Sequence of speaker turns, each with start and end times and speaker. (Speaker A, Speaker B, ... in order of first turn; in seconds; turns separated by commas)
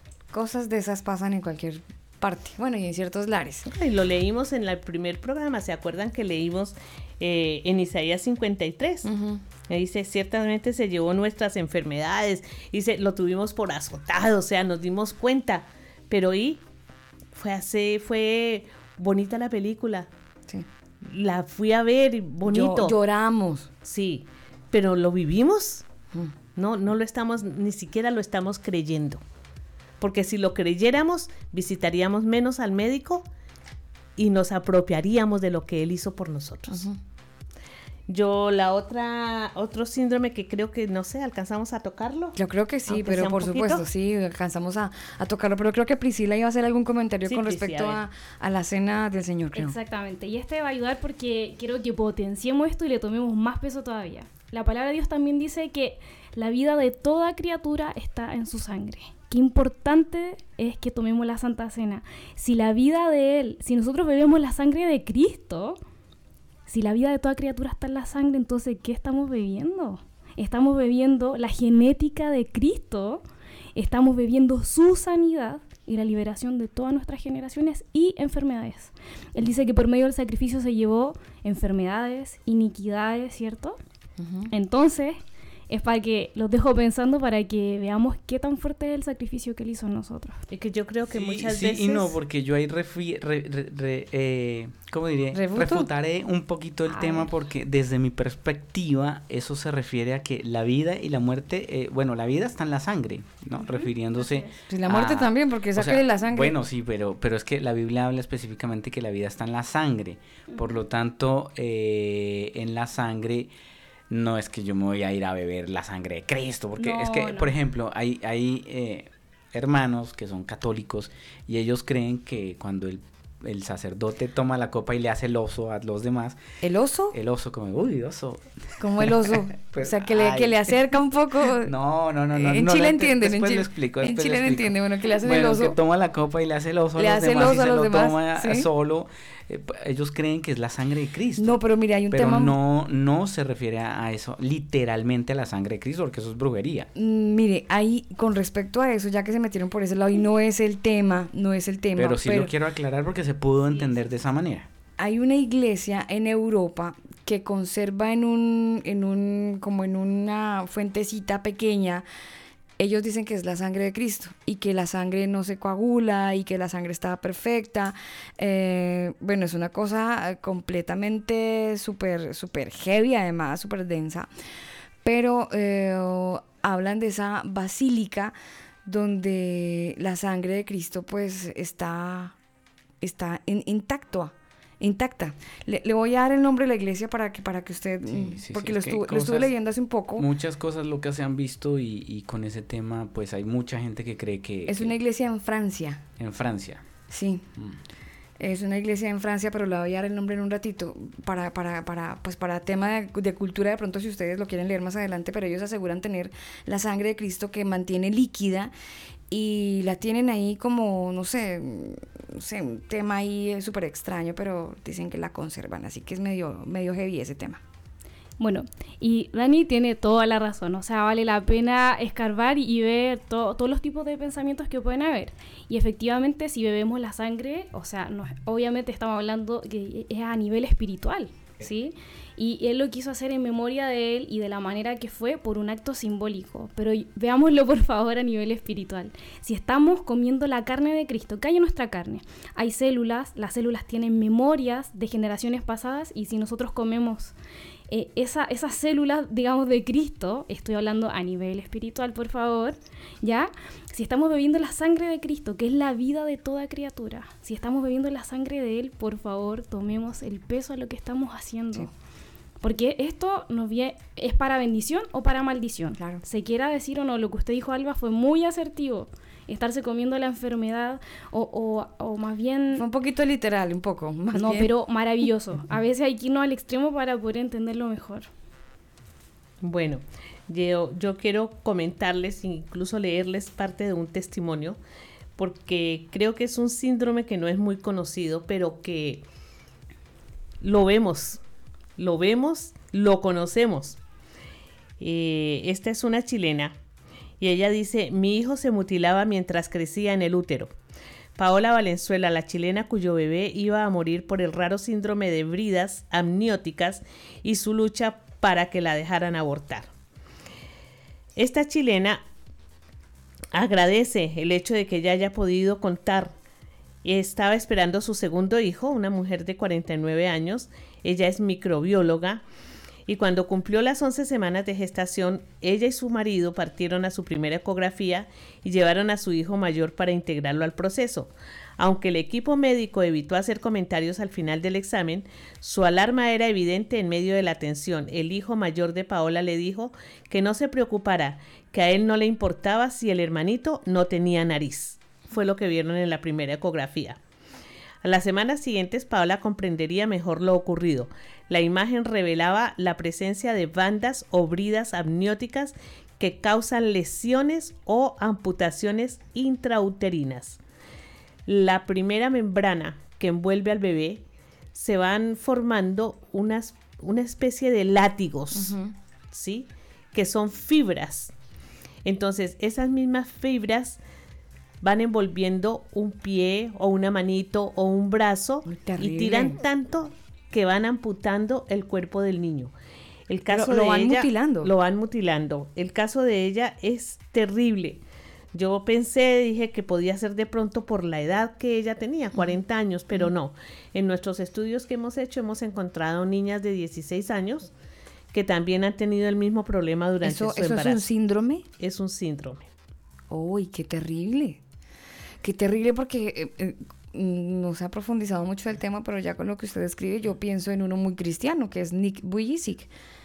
Speaker A: 0.3-3.7, Speaker B: 3.7-9.1, Speaker A: 9.1-9.4, Speaker B: 9.7-16.6, Speaker B: 17.3-20.1, Speaker B: 21.1-23.0, Speaker A: 22.4-23.7, Speaker B: 23.8-25.9, Speaker B: 26.6-29.2, Speaker B: 30.0-33.3, Speaker B: 34.2-36.9, Speaker A: 36.7-37.0, Speaker B: 38.1-42.4, Speaker A: 42.4-49.8, Speaker B: 42.9-43.9, Speaker B: 47.2-48.0, Speaker C: 49.5-65.8, Speaker C: 66.7-73.2, Speaker C: 73.8-83.8, Speaker A: 84.2-84.5, Speaker C: 84.5-90.4, Speaker B: 90.5-92.2, Speaker D: 91.1-113.5, Speaker A: 95.3-95.9, Speaker C: 96.9-97.2, Speaker C: 103.6-104.5, Speaker A: 104.7-106.5, Speaker D: 114.1-126.4, Speaker C: 116.8-117.5, Speaker A: 126.6-127.2, Speaker D: 127.1-130.8, Speaker A: 128.8-131.7, Speaker D: 131.5-146.9, Speaker A: 132.3-135.8, Speaker A: 137.0-138.7, Speaker A: 141.4-142.6, Speaker A: 146.9-152.5, Speaker D: 152.0-154.7, Speaker A: 155.0-162.0, Speaker A: 162.8-174.3, Speaker A: 175.1-178.3, Speaker A: 178.9-182.4, Speaker A: 183.0-190.3, Speaker D: 188.1-189.5, Speaker D: 190.2-194.9, Speaker A: 194.7-196.0, Speaker D: 196.2-196.8, Speaker A: 197.1-197.5, Speaker A: 198.4-208.7, Speaker A: 209.3-217.6, Speaker C: 218.4-247.3, Speaker C: 247.9-261.9, Speaker C: 262.6-272.8, Speaker A: 272.7-274.7, Speaker C: 274.4-278.3, Speaker B: 279.6-284.8, Speaker B: 285.4-289.2, Speaker B: 290.6-291.4, Speaker B: 292.0-294.0, Speaker B: 295.0-296.8, Speaker B: 297.4-300.8, Speaker B: 301.4-309.9, Speaker B: 311.4-312.2, Speaker B: 313.5-316.4, Speaker B: 317.0-322.4, Speaker B: 323.1-347.2, Speaker B: 348.0-360.6, Speaker B: 361.5-368.8, Speaker A: 368.5-368.9, Speaker B: 369.3-371.3, Speaker B: 372.1-374.0, Speaker B: 374.8-382.7, Speaker A: 378.7-379.6, Speaker B: 383.3-388.0, Speaker A: 383.5-384.7, Speaker B: 388.5-397.7, Speaker A: 392.4-392.6, Speaker B: 398.3-401.1, Speaker A: 400.2-401.6, Speaker B: 401.8-402.7, Speaker A: 403.3-404.6, Speaker A: 405.4-412.9